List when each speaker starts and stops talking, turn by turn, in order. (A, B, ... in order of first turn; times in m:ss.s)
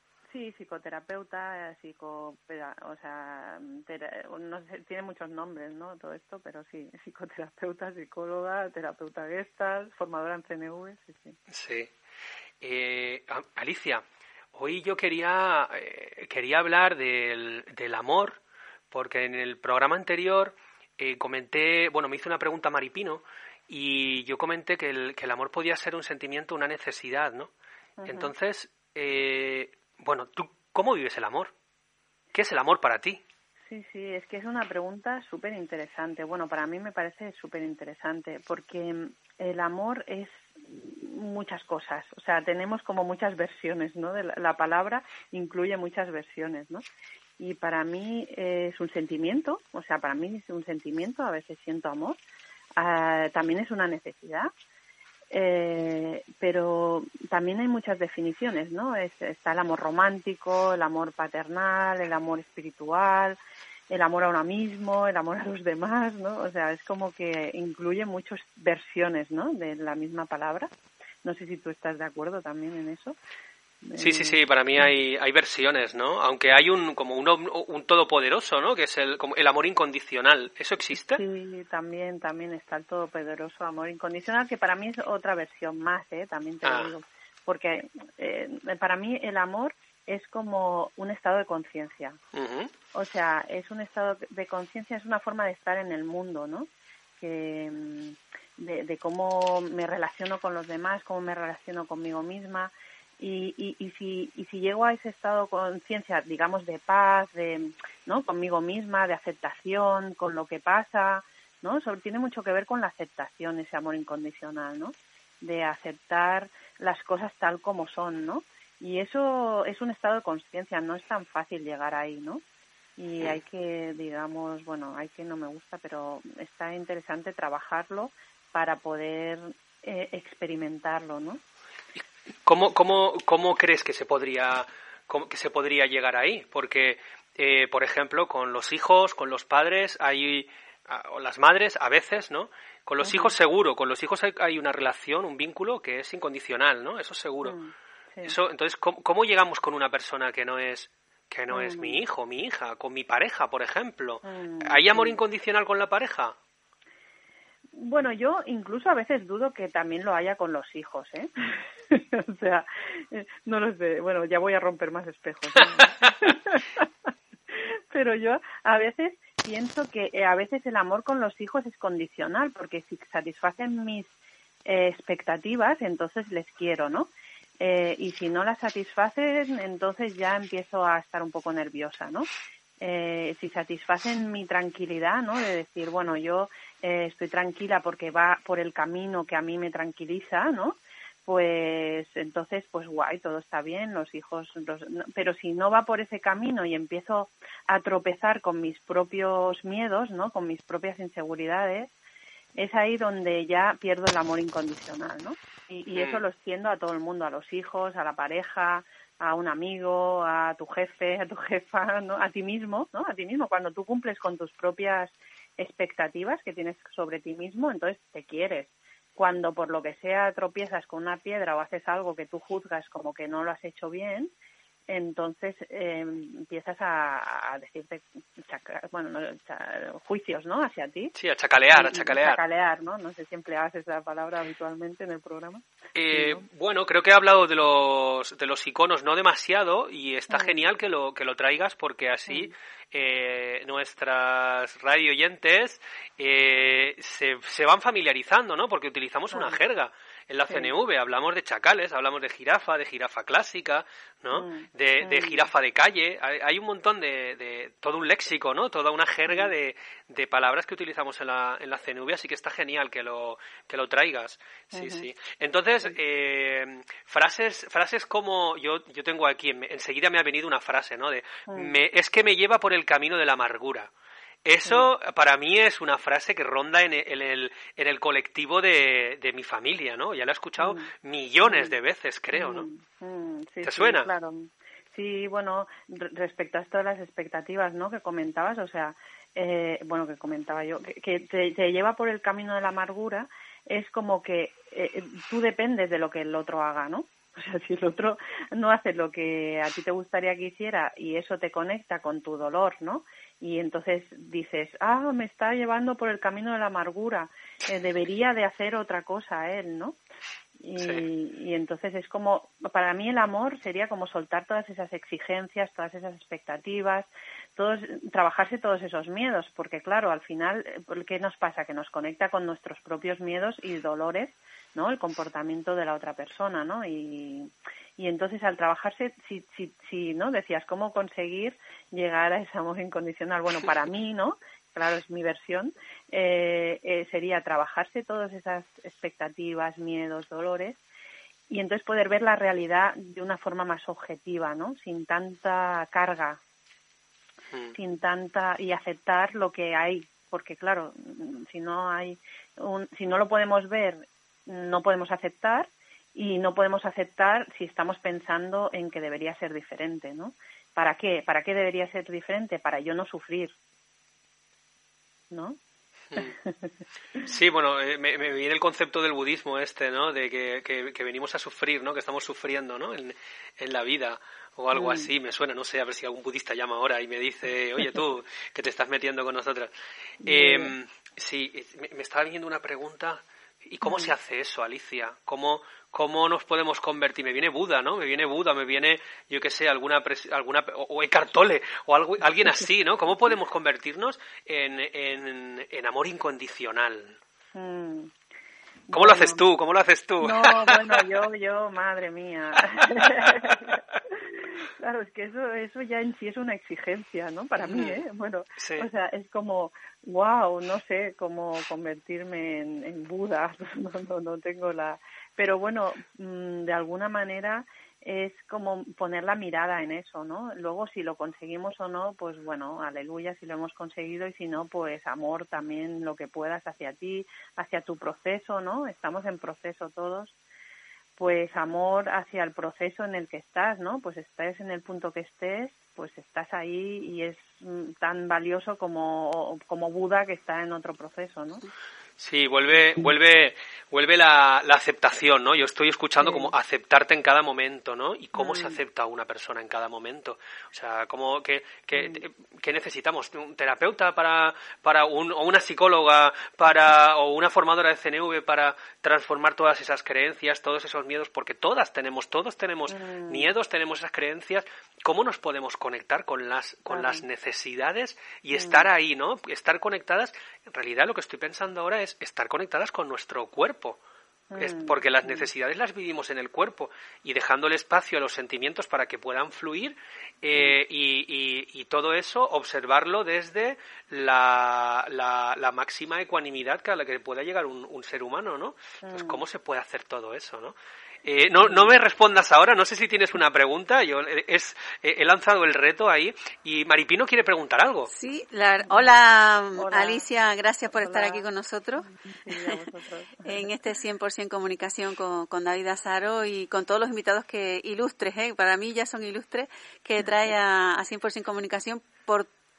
0:00.3-0:11.4 A
0:11.5-0:11.9 B
0:12.6-0:18.4 B
0:18.9-0:27.5 B
0:28.0-0:28.3 A
0:28.0-0:31.5 B
0:32.3-0:33.2 B
0:33.7-0:46.8 A
0:47.4-0:52.2 A
0:52.8-0:54.5 A
0:55.3-1:03.4 A
1:03.9-1:10.7 A
1:11.2-1:13.2 A
1:13.8-1:14.4 A
1:14.0-1:21.2 B
1:21.1-1:32.2 A
1:26.6-1:26.9 B
1:32.3-1:32.7 B
1:32.9-1:36.7 A
1:37.2-2:02.4 A
2:03.0-2:11.4 A
2:12.0-2:27.6 B
2:23.0-2:23.3 A
2:27.4-2:28.4 A
2:28.2-2:36.4 B
2:31.5-2:32.0 A
2:34.2-2:35.2 A
2:37.7-2:54.1 A
2:54.6-3:02.3 A
3:02.8-3:21.9 A
3:22.6-3:44.3 A
3:25.9-3:26.2 B
3:44.9-3:51.1 A
3:51.1-3:52.4 B
3:51.7-3:56.4 A
3:55.9-4:33.9 B
4:00.3-4:00.6 A
4:14.3-4:15.4 A
4:24.7-4:25.1 A
4:31.5-4:31.7 A
4:34.4-4:42.7 B
4:40.6-4:40.9 A
4:41.4-4:41.8 A
4:42.3-5:10.0 A
4:43.6-4:44.1 B
5:10.6-5:40.8 A
5:10.8-5:11.1 B
5:41.5-5:46.4 A
5:47.7-6:03.5 A
6:05.3-6:05.6 A
6:06.2-6:06.7 A
6:07.2-6:19.7 B
6:14.7-6:15.1 A
6:20.2-6:20.7 A
6:20.2-6:37.2 B
6:23.8-6:24.1 A
6:37.6-6:38.1 A
6:38.9-6:39.4 A
6:38.9-6:41.2 B
6:40.2-7:10.3 A
6:43.0-6:43.8 B
6:47.6-6:48.0 B
6:48.6-6:48.9 B
7:11.2-7:21.6 A
7:22.2-7:54.0 B
7:26.2-7:26.5 A
7:28.4-7:28.8 A
7:42.9-7:43.5 A
7:46.9-7:47.2 A
7:48.5-7:48.9 A
7:54.5-7:55.5 A
7:54.6-8:18.1 B
8:09.0-8:09.4 A
8:11.6-8:11.9 A
8:18.1-8:22.8 C
8:18.9-8:19.2 A
8:19.7-8:20.2 A
8:20.9-8:21.4 A
8:22.1-8:23.7 A
8:23.4-8:32.5 C
8:30.2-8:30.5 A